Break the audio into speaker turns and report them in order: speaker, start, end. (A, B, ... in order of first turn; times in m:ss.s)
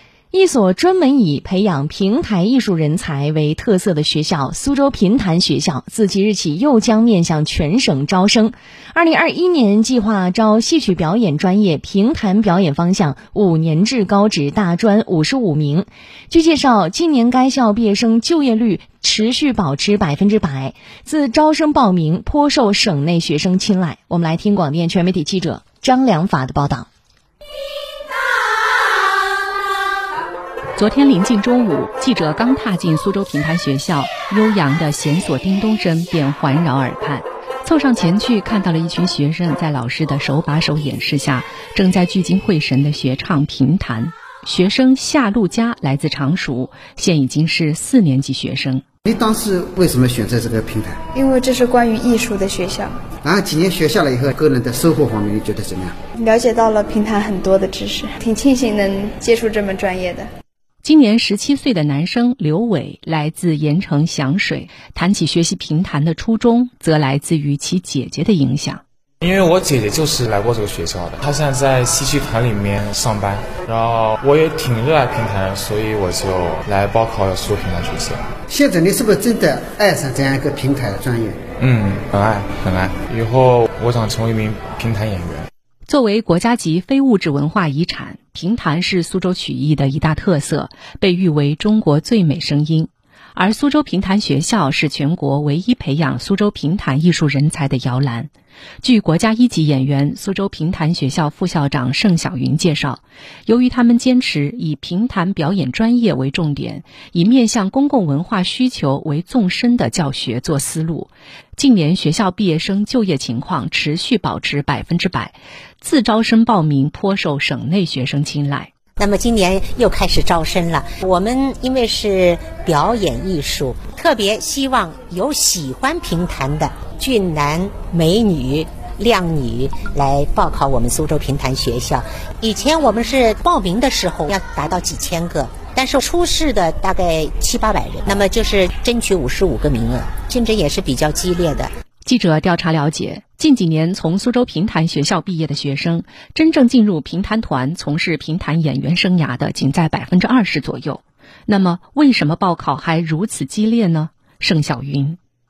0:00.3-0:26.9 A
0:30.8-0:48.8 B
0:49.1-0:51.0 C
0:51.1-0:52.9 D
0:53.2-0:56.0 C
0:56.2-1:00.3 D
1:00.8-1:08.8 B
1:09.2-1:18.2 E
1:18.5-1:21.4 C
1:21.6-1:25.5 E
1:25.9-1:38.3 B
1:38.8-1:58.7 B
1:59.0-2:21.7 F
2:22.0-2:35.2 B